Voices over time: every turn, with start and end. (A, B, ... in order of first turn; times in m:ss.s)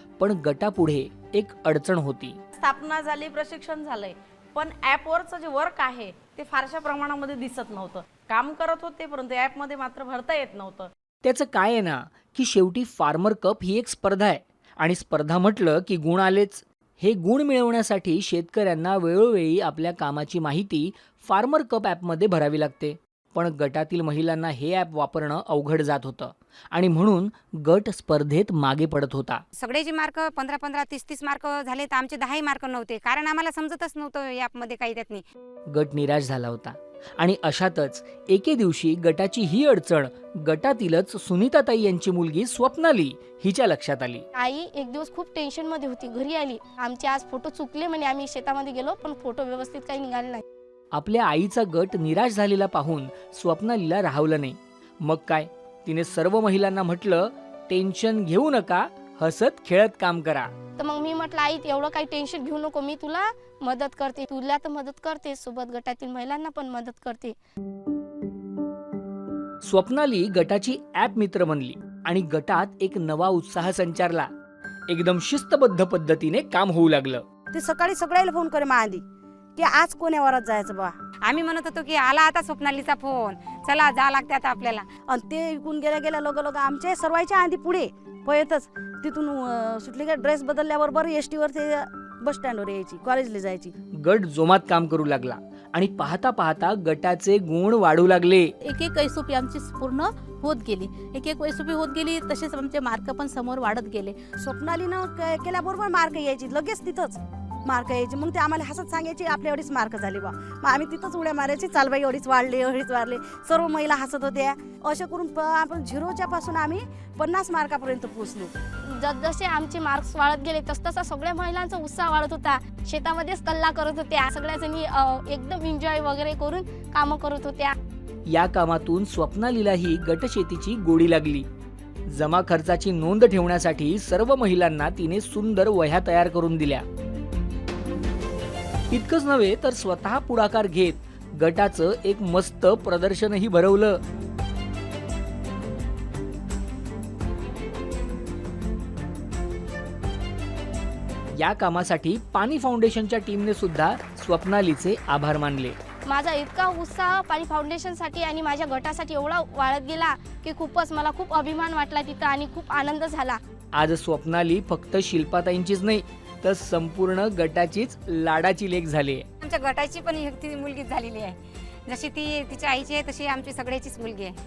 0:00.2-0:02.4 A
0:02.6-0:10.9 B
0:11.2-0:29.4 A
0:29.6-0:35.2 C
0:35.7-0:44.2 A
0:44.4-0:50.4 D
0:51.0-1:00.5 A
1:00.8-1:07.4 D
1:09.6-1:14.3 A
1:14.9-1:17.2 A
1:17.5-1:19.0 E
1:19.6-1:20.9 E
1:21.3-1:24.9 C
1:25.1-1:33.7 E
1:34.0-1:38.5 A
1:38.6-1:44.2 F
1:44.4-1:58.5 E
1:58.9-2:07.8 D
2:08.3-2:11.5 A
2:12.1-2:16.8 A
2:18.9-2:24.0 A
2:31.4-2:35.8 A
2:36.1-2:43.4 D
2:43.8-2:49.3 A
2:49.4-2:54.4 C